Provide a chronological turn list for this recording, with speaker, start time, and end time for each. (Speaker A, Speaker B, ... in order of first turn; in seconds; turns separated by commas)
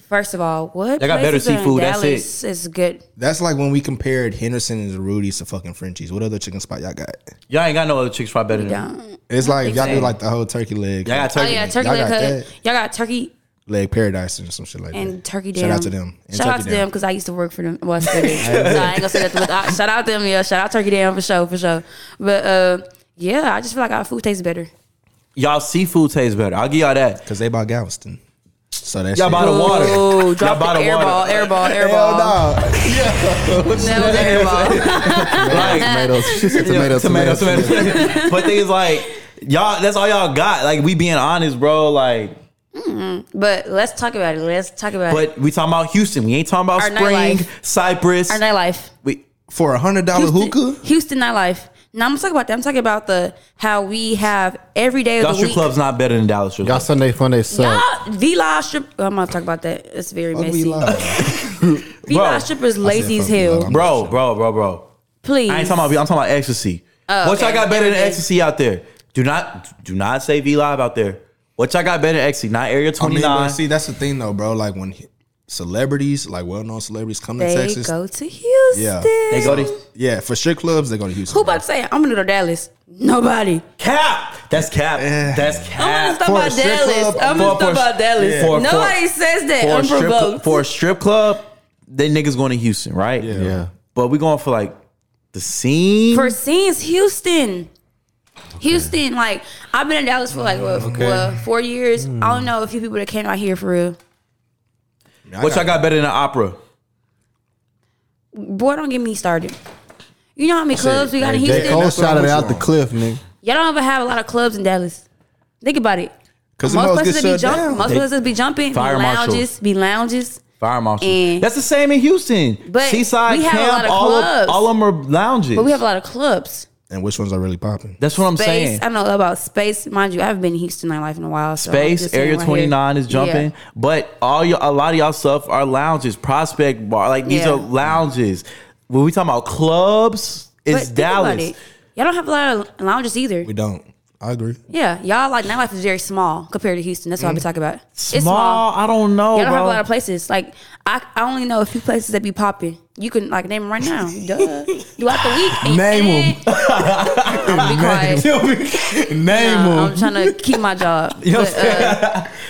Speaker A: 0.1-3.0, Speaker B: 1.0-2.3, Speaker C: 3.2-7.3, Speaker B: 7.5-8.8, Speaker A: 8.5-10.1, Speaker C: 9.3-12.5, Speaker B: 9.7-10.1, Speaker B: 11.0-11.7, Speaker A: 11.3-13.3, Speaker C: 13.7-16.8, Speaker A: 14.9-24.7, Speaker B: 18.1-19.4, Speaker C: 18.4-19.1, Speaker B: 25.4-27.2, Speaker C: 27.2-28.2, Speaker C: 28.7-30.0, Speaker B: 29.1-31.5, Speaker A: 29.4-32.4, Speaker C: 31.6-34.8, Speaker B: 32.8-35.9, Speaker A: 33.7-36.6, Speaker D: 35.3-38.0, Speaker B: 36.6-42.4, Speaker A: 37.7-39.0, Speaker A: 42.7-45.3, Speaker B: 45.1-48.4, Speaker A: 46.8-47.5, Speaker A: 48.3-48.9, Speaker C: 49.5-50.8, Speaker A: 50.1-55.7, Speaker B: 55.2-56.9, Speaker D: 56.6-57.9, Speaker A: 57.5-60.9, Speaker C: 60.3-61.3, Speaker B: 60.9-62.5, Speaker A: 62.0-63.7, Speaker C: 62.8-64.2, Speaker B: 63.7-64.9, Speaker A: 65.2-65.9, Speaker B: 65.5-73.6, Speaker A: 67.1-68.2, Speaker C: 73.0-77.9, Speaker A: 77.4-79.8, Speaker C: 78.7-81.6, Speaker B: 79.3-79.7, Speaker A: 81.3-83.6, Speaker B: 83.8-86.2, Speaker C: 84.5-85.7, Speaker A: 85.8-90.6, Speaker C: 86.2-88.5, Speaker B: 87.2-89.0, Speaker B: 89.6-93.3, Speaker C: 93.2-93.6, Speaker D: 93.3-93.7, Speaker B: 93.9-94.8, Speaker B: 95.3-96.3, Speaker A: 96.1-97.7, Speaker D: 98.6-98.9, Speaker A: 98.6-104.0, Speaker C: 100.6-101.1, Speaker D: 100.7-101.3, Speaker D: 102.0-102.5, Speaker C: 105.3-105.8, Speaker B: 105.4-106.6, Speaker A: 108.3-109.6, Speaker A: 110.4-112.0, Speaker C: 110.7-112.7, Speaker D: 111.3-113.2, Speaker A: 113.4-115.0, Speaker A: 115.6-116.1, Speaker C: 116.6-118.0, Speaker A: 116.6-120.4, Speaker B: 118.7-119.5, Speaker B: 120.6-125.8, Speaker A: 121.0-121.5, Speaker A: 122.6-124.7, Speaker A: 125.5-126.7, Speaker C: 126.9-128.0, Speaker B: 128.0-128.8, Speaker A: 128.3-133.5, Speaker B: 131.6-141.5, Speaker A: 137.2-137.6, Speaker A: 140.7-143.5, Speaker C: 143.4-144.6, Speaker A: 144.7-148.6, Speaker B: 147.9-149.8, Speaker A: 149.3-156.4, Speaker C: 155.6-156.5, Speaker B: 156.4-159.3, Speaker C: 157.3-158.2, Speaker A: 157.4-158.2, Speaker C: 159.1-159.9, Speaker A: 159.3-162.1, Speaker B: 161.2-162.3